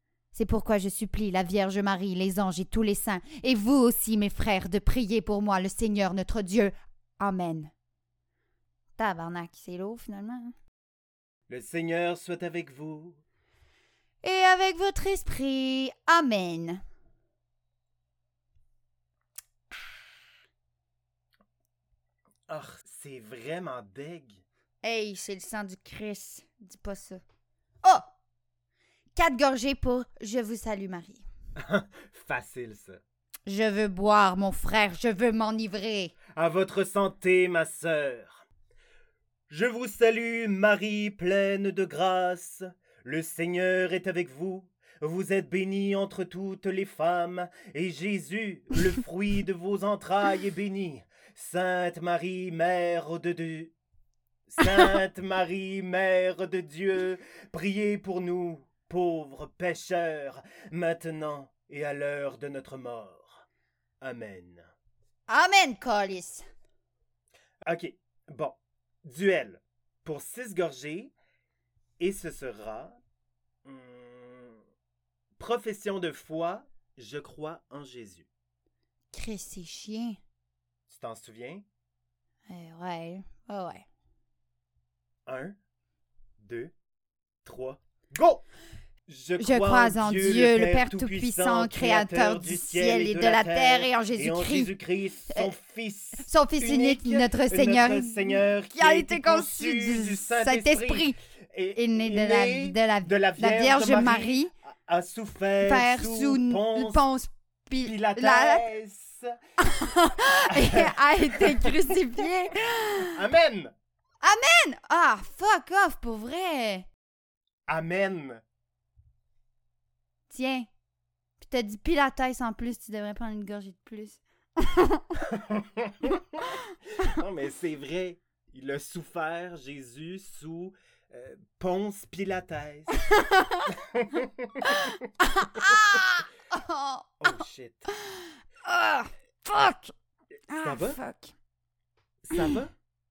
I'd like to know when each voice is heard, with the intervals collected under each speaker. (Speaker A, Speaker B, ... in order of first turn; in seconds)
Speaker A: 0.3-7.7, 9.0-10.5, 14.2-16.8, 24.8-27.2, 29.1-31.2, 33.5-36.1, 65.3-66.4, 79.1-80.2, 82.5-83.8, 89.4-94.7, 96.2-101.2, 101.8-104.5, 105.6-108.6, 109.6-113.2, 114.2-116.9, 120.3-120.7, 121.4-125.2, 133.1-133.7, 134.7-137.3, 137.9-139.9, 140.5-141.3
Speaker B: 11.5-13.2, 22.5-24.4, 31.6-33.0, 36.3-38.4, 39.5-53.7, 54.5-63.4, 64.0-64.7, 67.6-71.1, 72.0-73.0, 73.6-74.6, 75.4-78.3, 80.9-81.6, 85.2-85.5, 86.4-86.7, 87.4-88.4, 89.1-107.0, 107.8-109.4, 110.5-112.0, 113.1-113.7, 117.7-118.4, 125.3-133.0, 133.7-134.7, 137.2-137.9, 140.6-141.0, 142.2-142.7